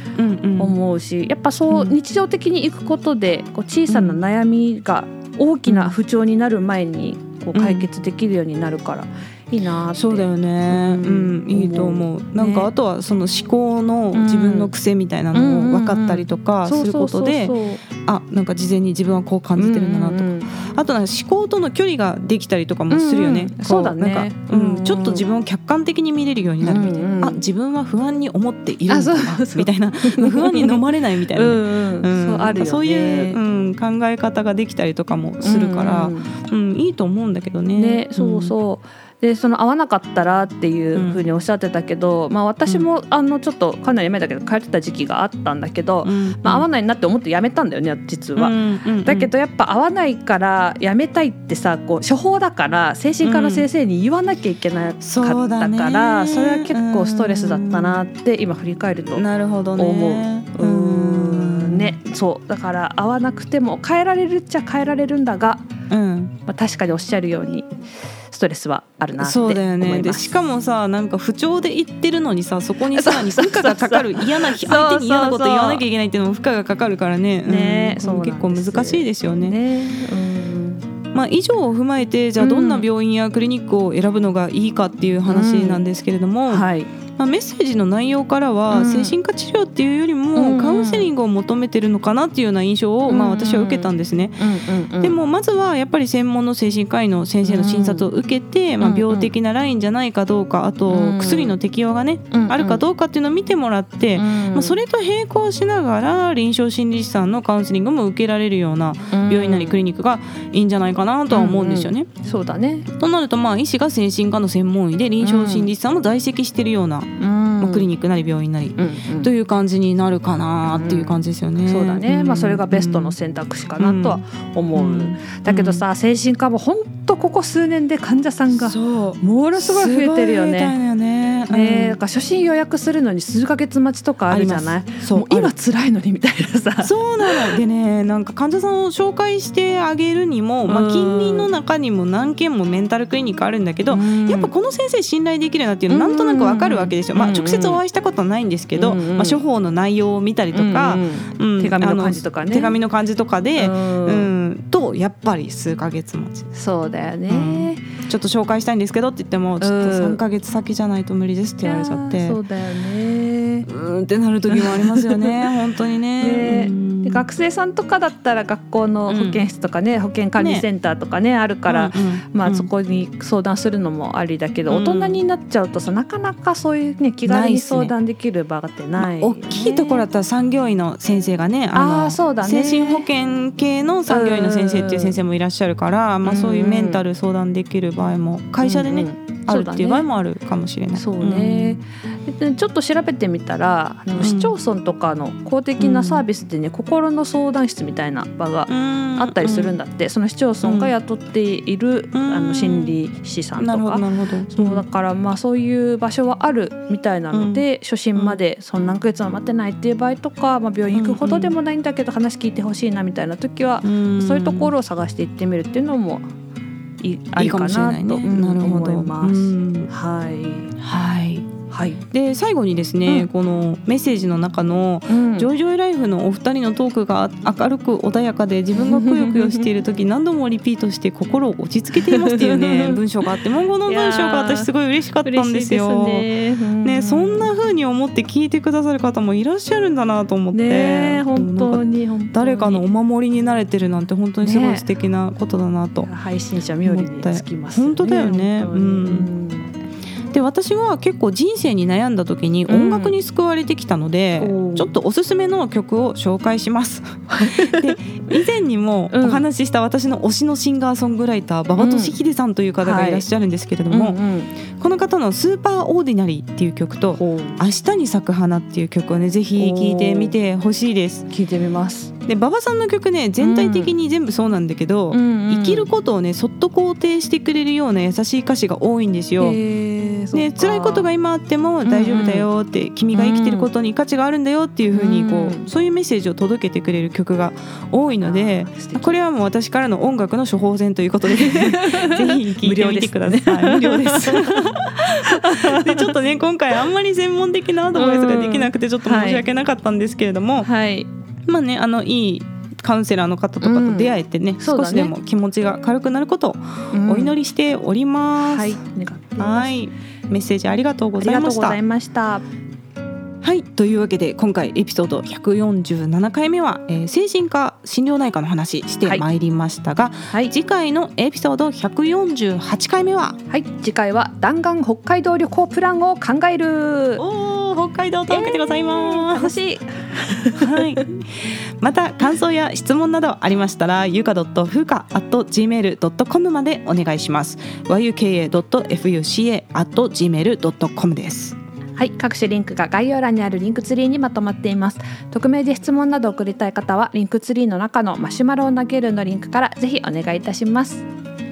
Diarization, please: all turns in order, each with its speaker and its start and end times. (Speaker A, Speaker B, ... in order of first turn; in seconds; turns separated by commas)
Speaker A: 0.1-0.7, Speaker B: 0.6-12.7, Speaker A: 3.9-4.2, Speaker A: 5.7-5.9, Speaker A: 7.5-7.9, Speaker A: 9.9-38.5, Speaker B: 14.1-14.7, Speaker B: 15.3-17.8, Speaker B: 19.6-20.5, Speaker B: 22.9-25.2, Speaker B: 26.6-27.4, Speaker B: 28.9-33.4, Speaker B: 35.4-36.4, Speaker B: 37.8-59.2, Speaker A: 40.9-41.2, Speaker A: 46.0-46.6, Speaker A: 48.4-49.3, Speaker A: 53.2-53.6, Speaker A: 55.0-58.0, Speaker A: 59.1-62.0, Speaker B: 59.8-65.7, Speaker A: 65.9-66.3, Speaker B: 66.5-67.7, Speaker B: 68.3-70.3, Speaker A: 69.2-79.5, Speaker B: 72.9-75.8, Speaker B: 77.5-80.8, Speaker A: 81.1-94.5, Speaker B: 82.4-82.9, Speaker B: 85.3-85.8, Speaker B: 86.5-86.9, Speaker B: 88.7-89.1, Speaker B: 90.3-91.1, Speaker B: 93.1-95.1, Speaker A: 95.0-112.1, Speaker B: 97.4-98.1, Speaker B: 98.8-99.3, Speaker B: 100.9-101.6, Speaker B: 102.3-102.8, Speaker B: 104.1-104.8, Speaker B: 109.1-109.8, Speaker B: 111.3-112.9, Speaker A: 112.9-123.1, Speaker B: 115.2-115.7, Speaker B: 117.2-117.9, Speaker B: 118.8-119.3, Speaker B: 120.7-130.7, Speaker A: 123.8-124.2, Speaker A: 124.7-125.8, Speaker A: 128.5-132.0, Speaker B: 131.5-137.6, Speaker A: 134.3-135.5, Speaker A: 136.8-156.5, Speaker B: 140.7-141.5, Speaker B: 143.9-144.5, Speaker B: 145.9-147.8, Speaker B: 148.7-149.4, Speaker B: 150.5-152.8, Speaker B: 153.6-154.3, Speaker B: 156.5-157.9, Speaker A: 157.3-162.4, Speaker B: 159.6-160.2, Speaker B: 161.6-163.7, Speaker A: 163.7-167.2, Speaker B: 164.5-165.4, Speaker B: 166.2-180.0, Speaker A: 169.1-169.4, Speaker A: 170.4-170.6, Speaker A: 171.7-172.7, Speaker A: 174.7-175.2, Speaker A: 177.2-177.9, Speaker A: 179.0-191.8, Speaker B: 181.7-183.1, Speaker B: 184.1-185.2, Speaker B: 186.2-187.0, Speaker B: 188.6-190.0, Speaker B: 190.9-216.2, Speaker A: 194.2-194.5, Speaker A: 195.8-196.2, Speaker A: 198.7-199.7, Speaker A: 200.6-200.9, Speaker A: 202.1-202.9, Speaker A: 203.6-204.8, Speaker A: 207.3-207.6, Speaker A: 208.2-208.4, Speaker A: 210.9-211.5, Speaker A: 213.8-214.7, Speaker B: 217.0-220.7, Speaker A: 217.4-219.9, Speaker A: 220.8-221.5, Speaker B: 221.7-222.0, Speaker A: 222.1-236.3, Speaker B: 225.1-225.5, Speaker B: 228.7-229.7, Speaker B: 231.9-233.0, Speaker B: 233.9-234.7, Speaker B: 235.2-237.5, Speaker A: 236.8-246.1, Speaker B: 240.5-242.8, Speaker B: 244.4-244.8, Speaker B: 246.0-249.7, Speaker A: 246.8-249.3, Speaker A: 250.3-264.2, Speaker B: 252.7-253.2, Speaker B: 254.4-254.9, Speaker B: 257.3-258.4, Speaker B: 259.1-259.4, Speaker B: 261.8-262.2, Speaker B: 262.8-263.2, Speaker B: 263.9-264.5, Speaker A: 264.7-271.3, Speaker B: 267.2-267.6, Speaker B: 269.6-270.3, Speaker B: 271.3-272.1, Speaker A: 272.2-279.6, Speaker B: 273.4-273.9, Speaker B: 275.1-275.9, Speaker B: 279.4-281.1, Speaker A: 280.3-300.7, Speaker B: 281.8-282.5, Speaker B: 283.1-283.7, Speaker B: 284.9-285.7, Speaker B: 288.2-289.2, Speaker B: 291.3-296.1, Speaker B: 297.9-299.4, Speaker B: 300.6-301.1, Speaker A: 301.5-308.8, Speaker B: 303.6-305.1, Speaker B: 306.9-307.4, Speaker B: 308.4-309.8, Speaker A: 309.4-311.8, Speaker B: 311.2-312.4, Speaker A: 313.4-323.4, Speaker B: 323.5-327.2, Speaker A: 327.2-329.5, Speaker B: 328.3-331.0, Speaker A: 330.5-341.6, Speaker B: 342.0-351.0